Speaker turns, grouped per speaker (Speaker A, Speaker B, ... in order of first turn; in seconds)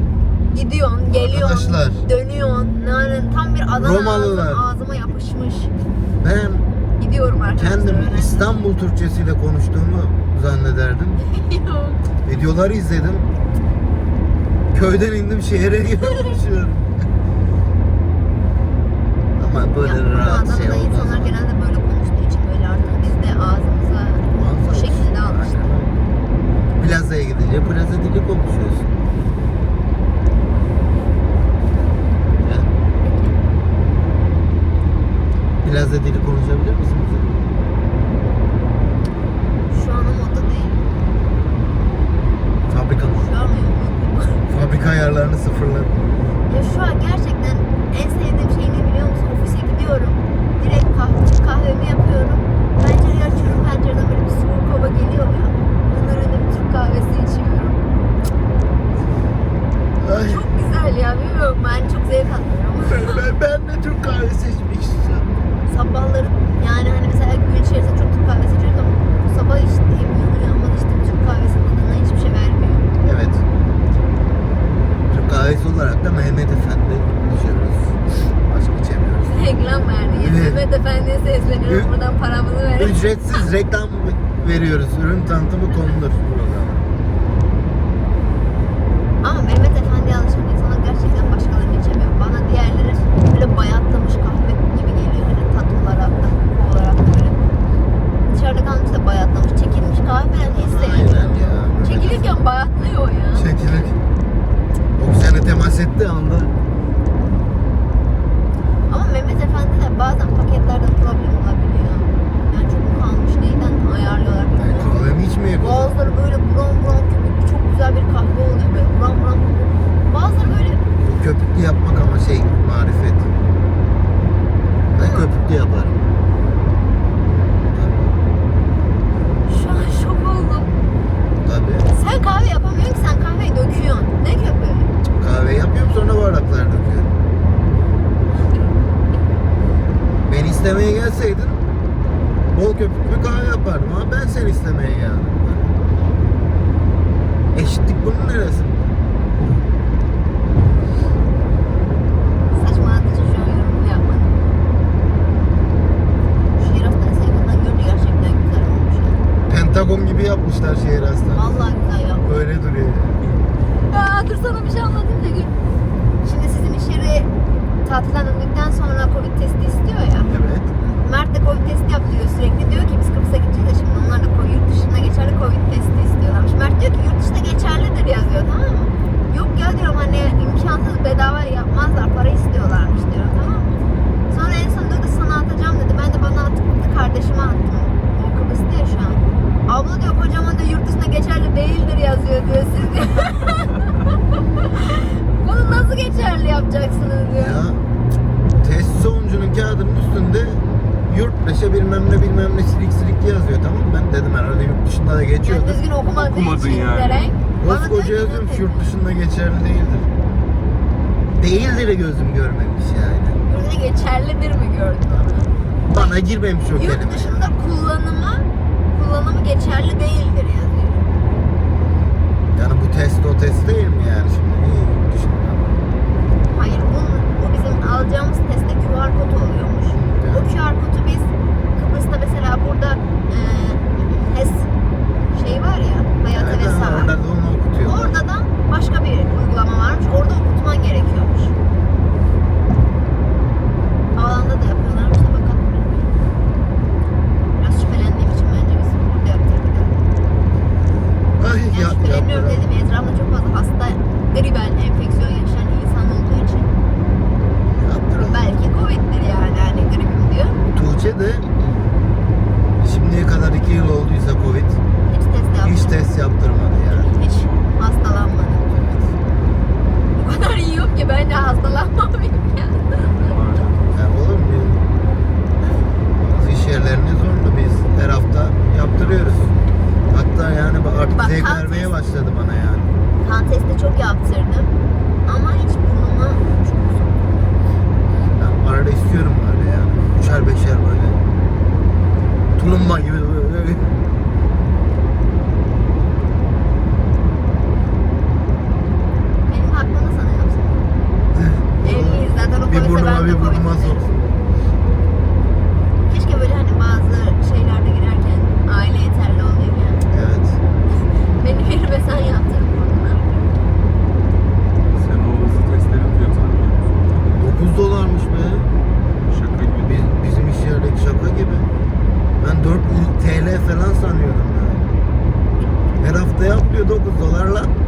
Speaker A: 0.5-5.7, 7.0-8.5, 11.2-12.0, 19.8-25.7, 33.0-33.4, 39.7-40.8, 43.2-44.5, 46.5-57.8, 60.2-63.2, 65.7-72.9, 79.3-83.0, 89.2-97.4, 98.3-103.5, 108.9-115.1, 115.6-119.5, 120.1-120.8, 125.0-125.2, 129.4-130.7, 131.9-134.9, 152.5-154.4, 156.6-159.2, 161.3-162.4, 163.9-165.5, 166.2-167.3, 167.8-197.6, 205.4-208.9, 213.5-216.2, 216.7-221.0, 226.5-234.7, 235.3-237.1, 237.8-241.5, 244.1-246.1, 247.6-250.0, 251.7-256.7, 258.2-260.6, 265.1-266.0, 266.9-268.7, 270.1-273.4, 281.1-281.9, 283.2-284.7, 285.2-287.2, 299.5-300.9, 301.8-304.1, 306.1-310.1, 310.9-313.3
Speaker B: 1.1-2.0, 3.7-4.7, 6.2-6.7, 7.5-11.2, 12.2-13.3, 14.7-16.9, 19.4-21.3, 24.3-26.0, 26.8-28.9, 32.4-32.7, 35.6-37.5, 42.7-43.3, 44.5-46.0, 60.0-60.4, 62.9-65.4, 73.0-73.5, 75.1-79.4, 80.1-80.6, 81.7-81.9, 82.7-86.8, 100.4-102.3, 103.3-104.0, 105.0-106.5, 114.6-115.9, 121.0-123.3, 124.9-126.1, 127.7-128.2, 131.4-131.9, 135.2-137.2, 140.2-141.6, 142.5-145.8, 147.5-148.8, 159.5-161.6, 162.2-163.2, 170.2-170.7, 197.4-197.8, 198.6-205.8, 207.6-210.1, 211.4-213.4, 215.9-217.5, 222.5-225.8, 229.9-230.5, 236.3-238.2, 251.4-252.6, 257.8-258.4, 260.7-261.5, 262.8-264.8, 265.6-267.1, 273.9-274.8, 276.2-279.5, 280.1-282.9, 288.4-291.2, 292.6-293.9, 301.3-304.1, 310.1-310.6, 317.3-318.7, 319.8-321.7, 322.4-324.9, 326.0-327.7
Speaker C: 206.1-207.3, 273.1-273.8, 314.9-317.3, 319.3-320.1